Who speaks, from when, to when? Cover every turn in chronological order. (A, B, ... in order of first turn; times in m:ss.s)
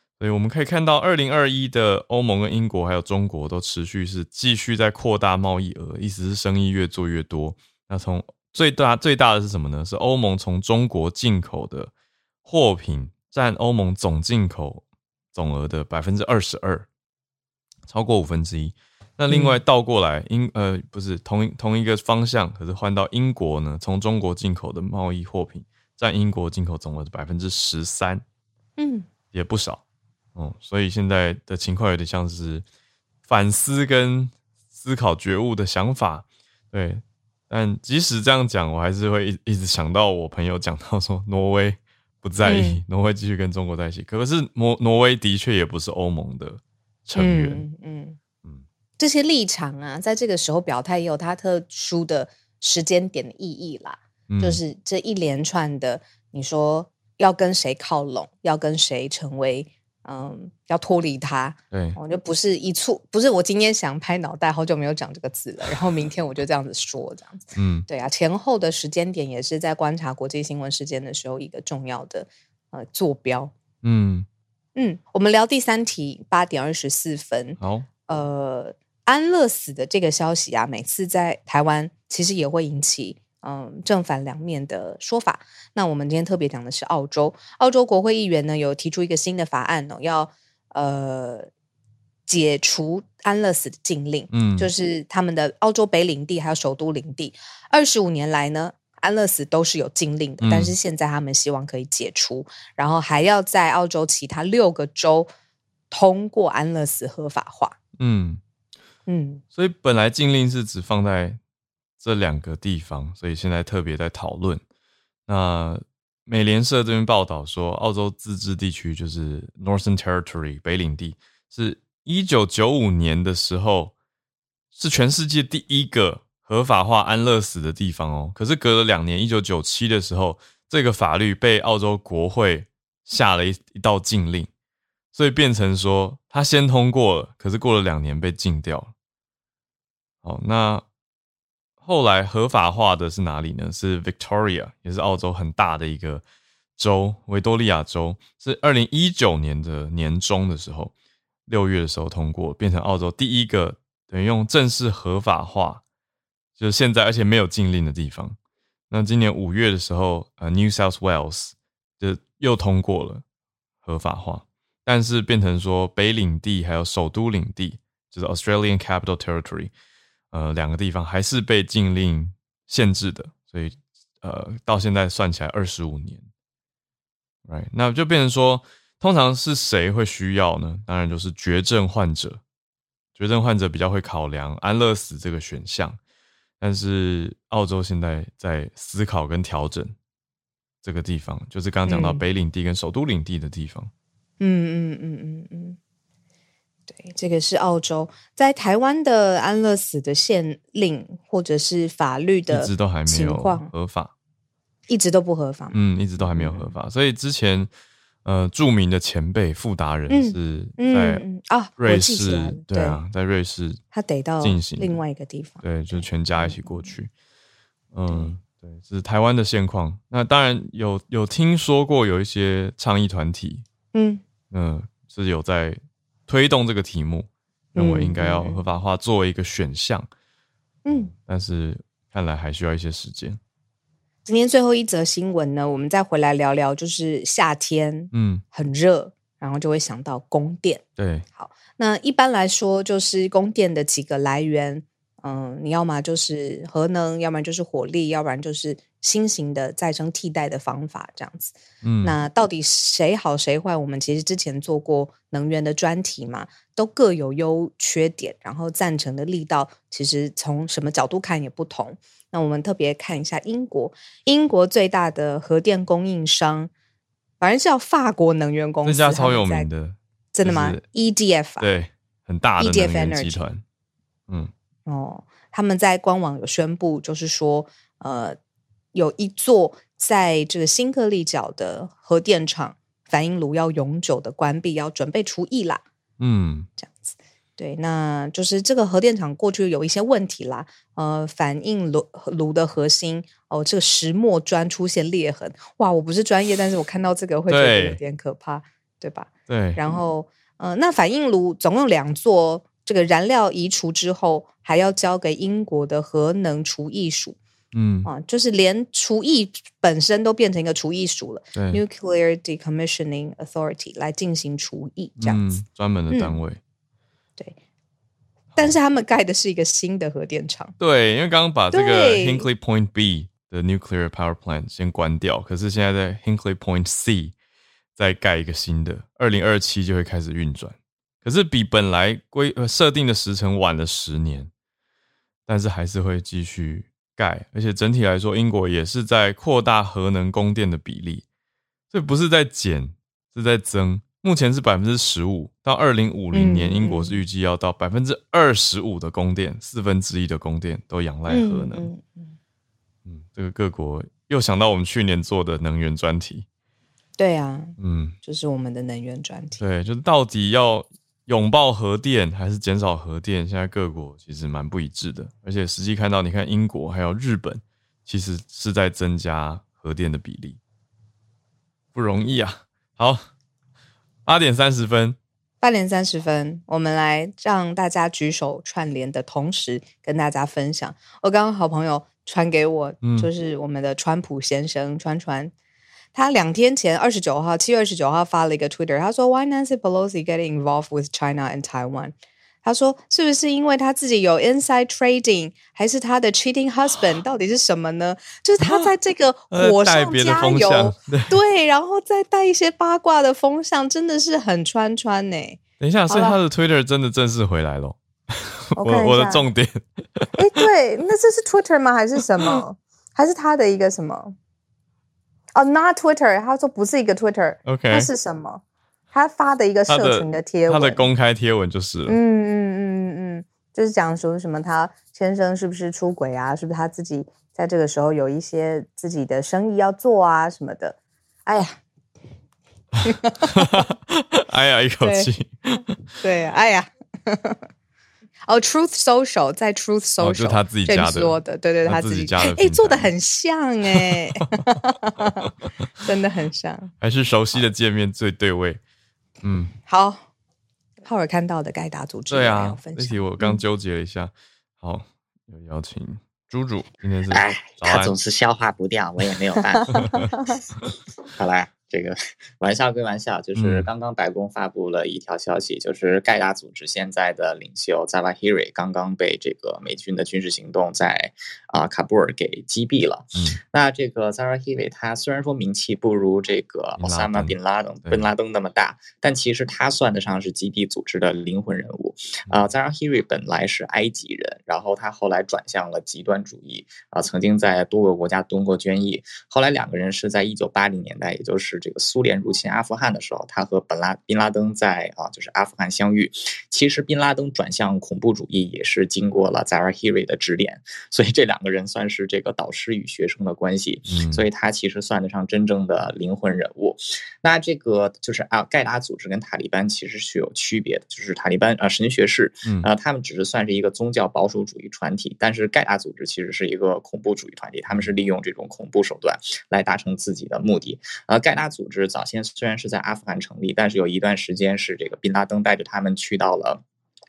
0:00.2-0:11.9 A
0:12.4-0:16.9 A
0:17.9-0:28.2 A
0:19.3-0:19.6 B
0:28.8-0:29.1 B
0:29.3-0:29.8 A
0:30.4-0:32.6 A
0:33.3-0:47.6 A
0:42.4-0:42.8 B
0:47.2-0:48.2 B
0:49.0-1:13.5 B
0:54.3-0:54.6 A
1:01.7-1:02.0 A
1:07.6-1:07.9 A
1:13.8-1:14.3 A
1:14.8-1:31.5 B
1:17.6-1:17.9 A
1:32.3-1:45.3 B
1:34.3-1:34.7 A
1:40.4-1:40.7 A
1:45.9-1:47.8 B
1:48.0-1:48.4 A
1:49.1-1:49.4 B
1:49.5-1:51.4 A
1:52.0-1:54.6 A
1:55.3-2:03.9 A
2:04.7-2:14.5 A
2:15.1-2:18.9 A
2:20.2-2:20.9 A
2:21.8-2:26.2 A
2:26.8-2:30.9 A
2:31.5-2:35.8 A
2:36.6-2:38.4 A
2:38.9-2:43.2 A
2:43.8-2:49.7 A
2:50.3-2:56.3 A
2:57.4-3:02.4 A
3:03.2-3:06.0 A
3:06.6-3:10.0 A
3:10.8-3:13.9 A
3:11.9-3:12.2 B
3:14.4-3:15.8 B
3:16.9-3:23.7 B
3:22.5-3:24.1 A
3:24.9-3:26.8 B
3:25.7-3:27.7 A
3:28.2-3:31.3 A
3:30.1-3:33.0 B
3:31.8-3:33.8 A
3:33.9-3:36.9 B
3:34.4-3:35.0 A
3:35.6-3:37.1 A
3:37.9-3:43.6 A
3:38.1-3:38.3 B
3:43.9-3:44.2 B
3:44.5-3:50.1 A
3:47.8-3:48.6 B
3:50.8-3:51.1 B
3:51.1-3:53.4 A
3:54.3-4:00.8 B
3:58.1-3:58.4 A
4:01.0-4:01.2 A
4:01.3-4:26.7 B
4:11.8-4:12.2 A
4:27.4-4:29.7 B
4:28.8-4:30.8 A
4:30.3-4:31.7 B
4:31.6-4:33.6 A
4:32.6-4:33.4 B
4:34.9-4:38.4 B
4:38.9-4:45.8 B
4:46.2-4:46.7 A
4:46.8-5:07.4 B
4:57.5-4:58.0 A
4:59.5-4:59.8 A
5:07.7-5:08.1 A
5:08.0-5:15.6 B
5:11.5-5:11.8 A
5:15.2-5:16.6 A
5:16.1-5:16.4 B
5:18.6-5:20.8 B
5:20.8-5:27.4 A
5:21.7-5:22.5 B
5:28.0-5:34.5 A
5:35.5-5:41.2 A
5:41.9-5:51.9 A
5:46.3-5:47.2 B
5:51.3-5:52.4 B
5:53.1-5:56.5 A
5:57.2-5:59.6 B
5:57.8-5:58.2 A
5:59.6-6:10.6 A
6:11.9-6:13.3 A
6:14.3-6:15.2 A
6:15.6-6:25.5 B
6:23.0-6:23.3 A
6:26.1-6:46.4 B
6:38.6-6:38.9 A
6:39.5-6:41.4 A
6:45.8-6:50.6 A
6:48.8-6:49.5 B
6:50.4-6:54.4 B
6:55.6-7:01.1 B
6:57.6-6:58.1 A
6:59.9-7:02.2 A
7:02.1-7:11.8 B
7:13.0-7:13.8 B
7:13.4-7:16.0 A
7:15.0-7:15.3 B
7:16.2-7:17.6 B
7:18.5-7:25.5 B
7:20.2-7:23.1 A
7:26.0-7:26.9 B
7:27.0-7:28.8 A
7:29.4-7:29.7 A
7:29.9-7:30.2 B
7:31.0-7:33.6 B
7:32.3-7:38.1 A
7:37.3-7:40.2 C
7:41.4-8:46.8 C
7:43.6-7:43.9 A
7:53.4-7:53.6 A
7:57.0-7:58.3 A
8:24.1-8:24.4 A